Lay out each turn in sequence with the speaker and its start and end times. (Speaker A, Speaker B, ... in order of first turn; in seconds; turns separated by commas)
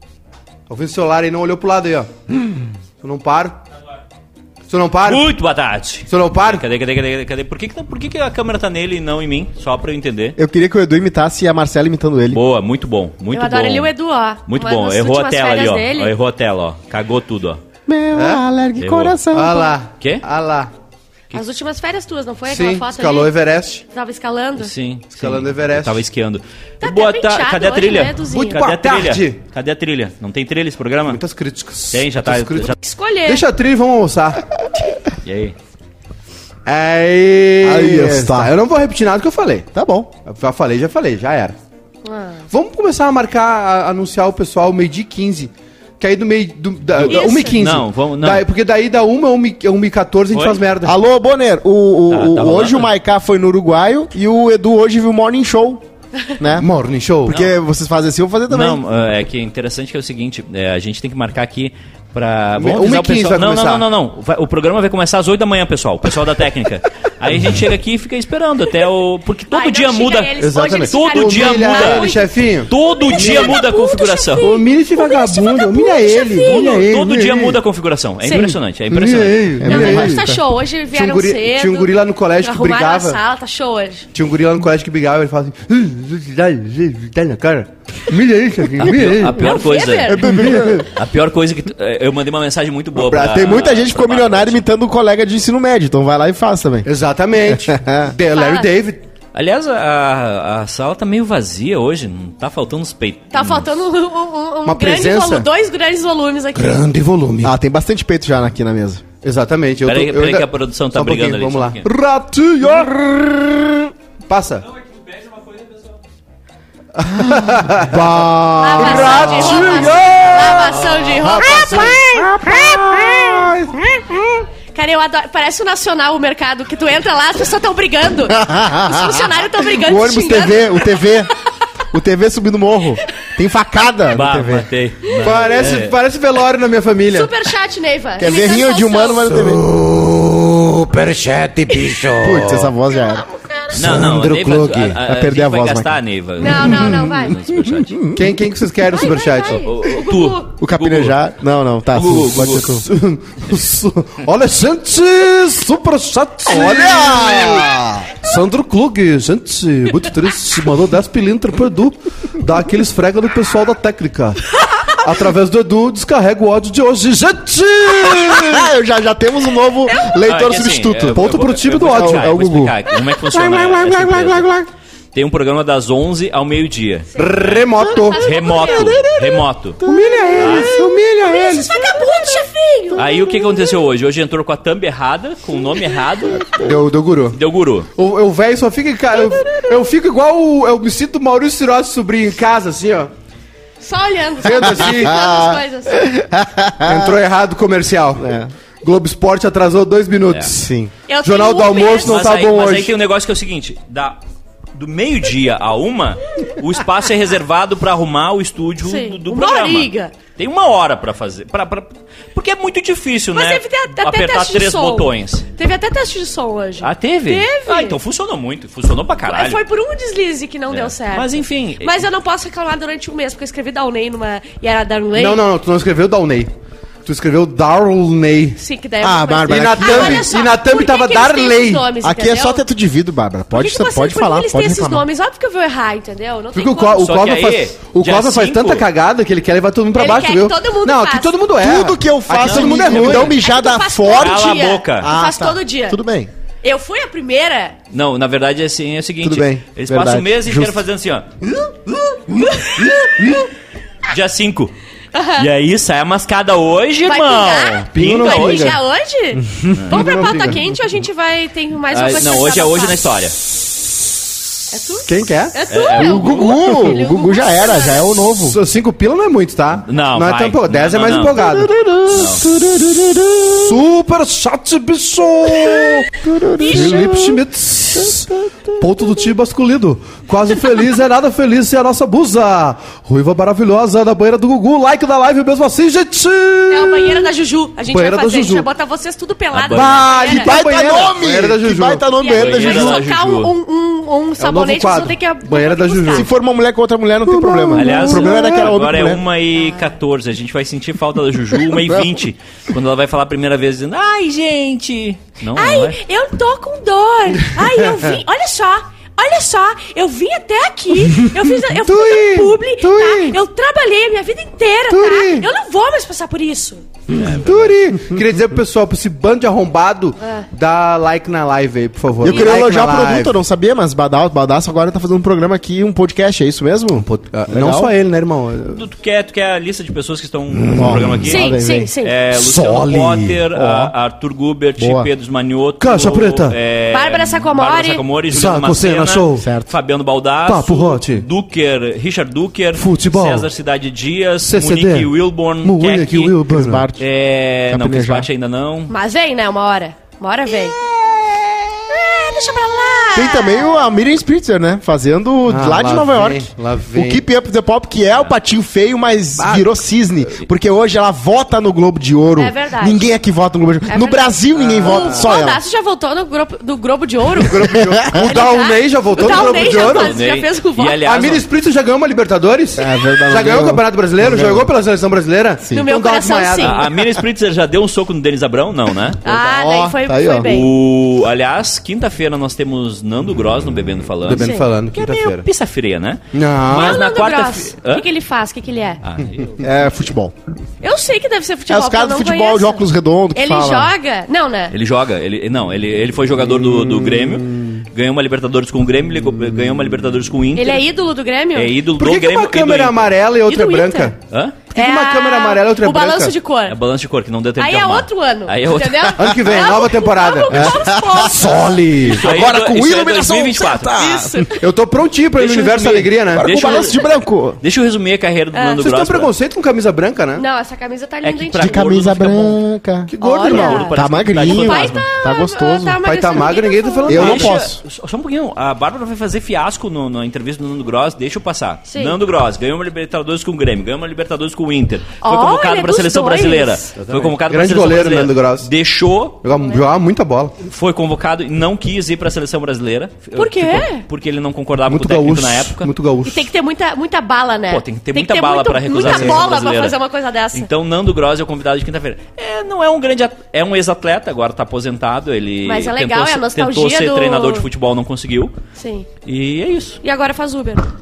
Speaker A: 0.7-2.1, Speaker A: 3.0-3.6, Speaker A: 4.7-5.3, Speaker B: 5.0-10.4, Speaker A: 6.1-6.6, Speaker C: 10.4-12.4, Speaker B: 12.3-13.9, Speaker D: 13.3-16.1, Speaker B: 14.5-17.6, Speaker C: 17.9-19.8, Speaker A: 18.1-18.4, Speaker B: 18.8-19.2, Speaker A: 19.3-20.7, Speaker B: 20.0-20.2, Speaker D: 21.3-23.3, Speaker A: 22.5-23.8, Speaker D: 23.9-24.7, Speaker B: 24.6-31.2, Speaker A: 25.1-26.0, Speaker D: 26.8-28.6, Speaker A: 28.3-29.4, Speaker A: 31.1-34.5, Speaker B: 31.9-32.8, Speaker D: 32.8-33.4, Speaker B: 35.2-35.5, Speaker A: 36.7-39.7, Speaker C: 37.6-38.5, Speaker C: 39.7-40.1, Speaker A: 40.3-41.6, Speaker D: 42.0-42.5, Speaker A: 42.5-51.0, Speaker B: 47.0-48.5, Speaker D: 47.1-47.6, Speaker B: 50.3-50.6, Speaker C: 50.8-55.8, Speaker B: 52.1-52.9, Speaker C: 56.4-56.7, Speaker A: 56.5-57.4, Speaker B: 57.3-57.5, Speaker C: 57.3-58.8, Speaker B: 58.5-72.1, Speaker A: 62.6-63.9, Speaker D: 69.5-76.9, Speaker A: 70.4-73.6, Speaker B: 72.7-74.5, Speaker A: 74.4-77.6, Speaker B: 76.4-79.8, Speaker D: 78.2-78.6, Speaker A: 78.9-80.4, Speaker C: 79.6-80.3, Speaker D: 79.7-84.1, Speaker A: 80.9-83.2, Speaker A: 84.1-89.5, Speaker B: 88.8-94.6, Speaker D: 89.3-90.4, Speaker C: 90.1-90.9, Speaker A: 90.3-90.8, Speaker C: 92.9-96.9, Speaker A: 96.8-99.0, Speaker C: 97.5-98.1, Speaker D: 98.3-98.7, Speaker B: 99.3-103.7, Speaker D: 103.3-106.8, Speaker A: 104.6-105.5, Speaker A: 106.5-107.6, Speaker C: 107.4-109.0, Speaker A: 109.2-114.6, Speaker B: 109.8-111.9, Speaker B: 115.2-115.6, Speaker A: 116.9-118.2, Speaker C: 117.2-119.9, Speaker D: 118.6-123.3, Speaker A: 118.8-124.4, Speaker C: 121.1-123.1, Speaker D: 124.7-131.1, Speaker C: 128.3-131.3, Speaker C: 131.9-134.7, Speaker B: 134.1-135.9, Speaker A: 135.2-137.3, Speaker D: 137.1-139.3, Speaker C: 138.2-139.6, Speaker A: 139.2-142.7, Speaker C: 142.2-143.2, Speaker D: 142.9-143.8, Speaker A: 143.7-145.0, Speaker B: 143.7-148.0, Speaker C: 145.0-146.0, Speaker D: 146.4-147.4, Speaker C: 146.5-148.3, Speaker A: 148.1-149.7, Speaker D: 148.9-150.5, Speaker B: 149.5-151.2, Speaker C: 150.6-152.8, Speaker B: 151.9-152.7, Speaker A: 152.6-168.7, Speaker C: 156.5-158.1, Speaker C: 168.3-171.3, Speaker B: 170.2-174.6, Speaker A: 171.1-172.4, Speaker C: 171.9-172.8, Speaker C: 173.3-174.7, Speaker B: 175.1-177.5, Speaker A: 177.1-178.8, Speaker D: 177.1-179.0, Speaker B: 178.2-179.8, Speaker A: 179.8-182.2, Speaker C: 179.8-180.6, Speaker B: 180.3-180.8, Speaker D: 181.2-183.4, Speaker B: 182.9-186.8, Speaker A: 186.6-187.4, Speaker B: 187.3-187.9, Speaker A: 187.9-193.1, Speaker D: 193.8-196.1, Speaker A: 194.4-195.2, Speaker C: 194.8-197.1, Speaker A: 196.8-200.7, Speaker C: 198.2-198.5, Speaker C: 200.5-200.9, Speaker D: 201.1-202.3, Speaker A: 201.2-202.9, Speaker B: 201.8-204.2, Speaker B: 204.7-215.5, Speaker D: 208.8-210.1, Speaker D: 213.3-218.0, Speaker B: 216.8-219.6, Speaker D: 219.3-225.4, Speaker B: 220.7-221.9, Speaker A: 225.1-226.5, Speaker A: 227.0-228.6, Speaker D: 228.6-232.6, Speaker C: 229.0-230.3, Speaker A: 229.5-231.9, Speaker C: 232.0-235.1, Speaker D: 233.5-237.1, Speaker A: 236.5-243.4, Speaker B: 236.9-238.9, Speaker D: 239.9-241.4, Speaker C: 241.6-246.3, Speaker B: 242.4-243.3, Speaker D: 243.2-246.0, Speaker B: 244.1-245.1, Speaker D: 246.6-247.8, Speaker B: 247.9-251.3, Speaker C: 249.2-250.8, Speaker D: 252.3-252.9, Speaker B: 254.1-254.7, Speaker D: 255.1-255.5, Speaker B: 255.4-258.8, Speaker D: 257.1-263.0, Speaker A: 257.9-258.8, Speaker A: 259.6-260.6, Speaker B: 259.8-260.3, Speaker B: 261.9-263.4, Speaker D: 264.7-268.1, Speaker A: 265.1-265.6, Speaker B: 265.7-266.7, Speaker C: 265.9-268.6, Speaker A: 268.4-272.8, Speaker B: 269.9-271.6, Speaker C: 271.4-273.7, Speaker B: 272.1-272.4, Speaker A: 273.6-276.1, Speaker C: 276.1-277.4, Speaker D: 276.6-277.1, Speaker A: 276.6-287.3, Speaker C: 277.9-278.8, Speaker D: 286.7-291.0, Speaker A: 287.9-288.7, Speaker B: 289.5-290.1, Speaker A: 289.7-292.1, Speaker C: 290.2-293.0, Speaker D: 292.2-296.3, Speaker B: 292.3-293.5, Speaker A: 294.4-296.3, Speaker C: 296.1-299.2, Speaker A: 297.3-298.7, Speaker B: 297.7-306.0, Speaker D: 299.6-299.9, Speaker D: 305.5-316.8, Speaker A: 311.8-313.4, Speaker A: 314.9-315.5, Speaker B: 317.1-317.9, Speaker A: 317.2-323.4, Speaker D: 320.2-320.5, Speaker C: 322.2-327.9, Speaker D: 322.2-322.6, Speaker A: 327.0-328.8, Speaker B: 328.7-346.4, Speaker A: 330.6-331.1, Speaker C: 330.8-331.9, Speaker D: 331.2-332.1, Speaker A: 332.3-333.9, Speaker C: 334.8-335.1, Speaker A: 335.8-336.6, Speaker D: 336.9-338.0, Speaker A: 338.3-339.4, Speaker C: 339.4-339.7, Speaker A: 340.4-341.2, Speaker A: 342.7-343.4, Speaker A: 344.4-345.1, Speaker A: 345.6-346.8, Speaker C: 346.5-347.1, Speaker B: 346.9-348.9, Speaker C: 347.7-348.3, Speaker D: 348.9-350.8, Speaker D: 351.9-353.9, Speaker C: 353.1-365.6, Speaker A: 355.4-357.2, Speaker A: 359.4-359.7, Speaker D: 362.4-363.1, Speaker D: 363.9-367.6, Speaker A: 364.5-365.3, Speaker A: 367.4-370.1, Speaker D: 368.1-371.0, Speaker B: 369.3-371.4, Speaker A: 371.0-376.9, Speaker C: 372.8-374.7, Speaker D: 375.7-376.9, Speaker B: 376.6-379.2, Speaker D: 379.2-380.7, Speaker C: 379.2-380.5, Speaker B: 380.4-388.1, Speaker A: 384.2-385.4, Speaker D: 384.3-384.6, Speaker A: 386.3-387.0, Speaker D: 386.7-389.0, Speaker B: 389.0-389.7, Speaker C: 389.6-390.3, Speaker D: 390.8-392.8, Speaker C: 391.7-393.9, Speaker D: 393.3-394.8, Speaker B: 394.7-400.9, Speaker C: 397.2-397.7, Speaker D: 400.6-401.8, Speaker B: 401.5-403.1, Speaker A: 401.9-404.2, Speaker D: 403.5-404.1, Speaker B: 404.3-404.6, Speaker A: 404.7-406.3, Speaker D: 404.7-406.8, Speaker B: 406.7-409.4, Speaker D: 407.6-412.0, Speaker A: 409.2-412.2, Speaker C: 410.5-411.5, Speaker B: 412.0-414.0, Speaker C: 412.1-414.5, Speaker D: 413.9-414.6, Speaker A: 414.6-416.5, Speaker B: 415.4-419.3, Speaker C: 416.3-417.6, Speaker D: 418.5-418.8, Speaker A: 418.8-420.4, Speaker D: 420.4-421.8, Speaker B: 421.2-422.6, Speaker C: 421.6-423.1, Speaker A: 423.1-423.9, Speaker D: 423.2-427.4, Speaker B: 423.4-425.1, Speaker C: 423.9-426.0, Speaker A: 426.0-427.6, Speaker C: 427.1-427.8, Speaker B: 427.1-439.4, Speaker D: 431.9-432.1, Speaker D: 435.2-436.9, Speaker A: 437.0-438.7, Speaker A: 439.4-440.5, Speaker B: 440.6-445.9, Speaker D: 443.3-444.0, Speaker A: 444.9-446.4, Speaker D: 446.2-450.7, Speaker B: 447.7-450.0, Speaker A: 449.0-449.4, Speaker B: 450.5-458.6, Speaker D: 455.6-457.7, Speaker D: 458.8-459.1, Speaker B: 459.2-460.0, Speaker D: 460.0-460.9